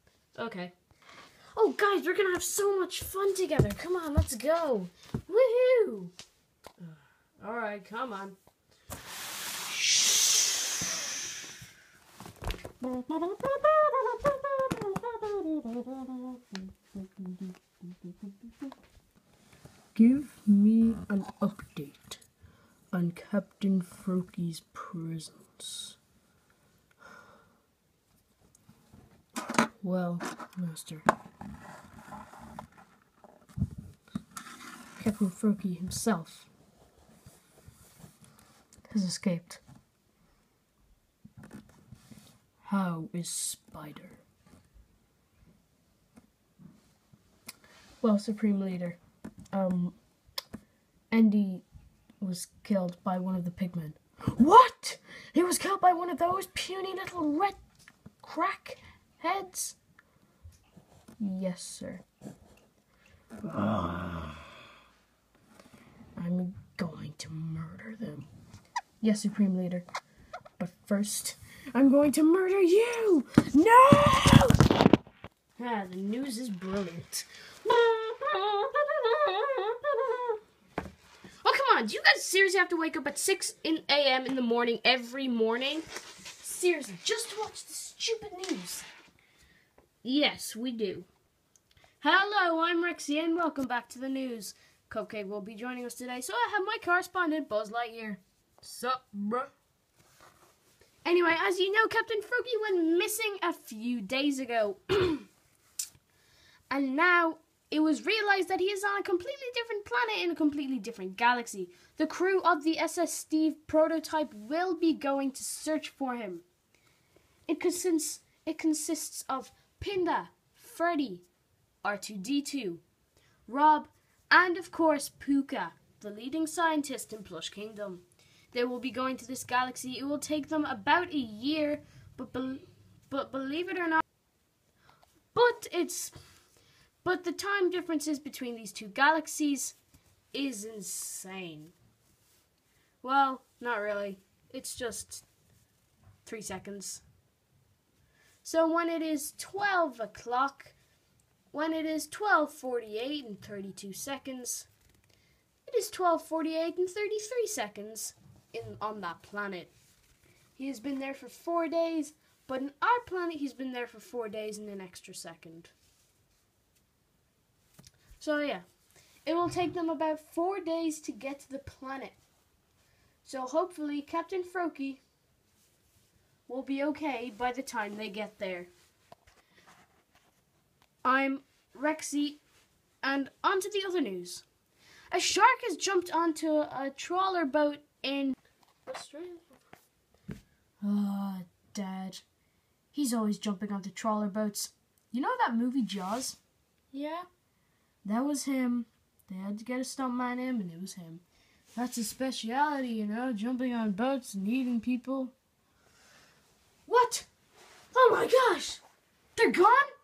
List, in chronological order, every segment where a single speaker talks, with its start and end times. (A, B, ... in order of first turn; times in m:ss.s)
0:00.3-0:00.7 A
0:01.5-0:06.1 A
0:06.8-0:08.4 A
0:09.6-0:10.8 A
0:12.8-0:18.3 A
0:19.9-0:22.2 A
0:22.9-0:26.0 A
0:29.8-0:31.0 A
0:35.0-0:36.5 A
0:38.9-0:39.6 A
0:42.6-0:44.2 A
0:48.0-0:49.0 A
0:49.5-0:50.0 A
0:51.1-0:51.6 A
0:52.2-0:57.6 A
0:58.2-0:59.8 A
1:01.2-1:02.0 A
1:03.4-1:04.4 A
1:06.2-1:08.3 A
1:09.0-1:09.8 A
1:10.6-1:14.6 A
1:15.6-1:20.4 A
1:21.4-1:28.8 A
1:30.0-1:31.1 A
1:32.0-1:39.5 A
1:41.0-1:45.3 A
1:46.7-1:56.4 A
1:57.5-2:01.2 A
2:01.8-2:02.8 A
2:03.4-2:14.0 A
2:15.3-2:16.2 A
2:17.0-2:19.8 A
2:20.3-2:21.7 A
2:23.0-2:25.2 A
2:26.2-2:27.0 A
2:28.4-2:30.7 A
2:31.5-2:34.7 A
2:35.6-2:39.7 A
2:40.6-2:45.7 A
2:48.2-2:48.6 A
2:49.2-2:52.2 A
2:53.2-2:55.0 A
2:56.5-2:58.7 A
3:01.0-3:02.4 A
3:03.0-3:04.4 A
3:05.1-3:09.6 A
3:10.8-3:12.2 A
3:12.9-3:16.4 A
3:16.9-3:17.2 A
3:18.0-3:21.2 A
3:21.7-3:25.3 A
3:26.8-3:27.3 A
3:27.9-3:28.8 A
3:29.4-3:29.9 A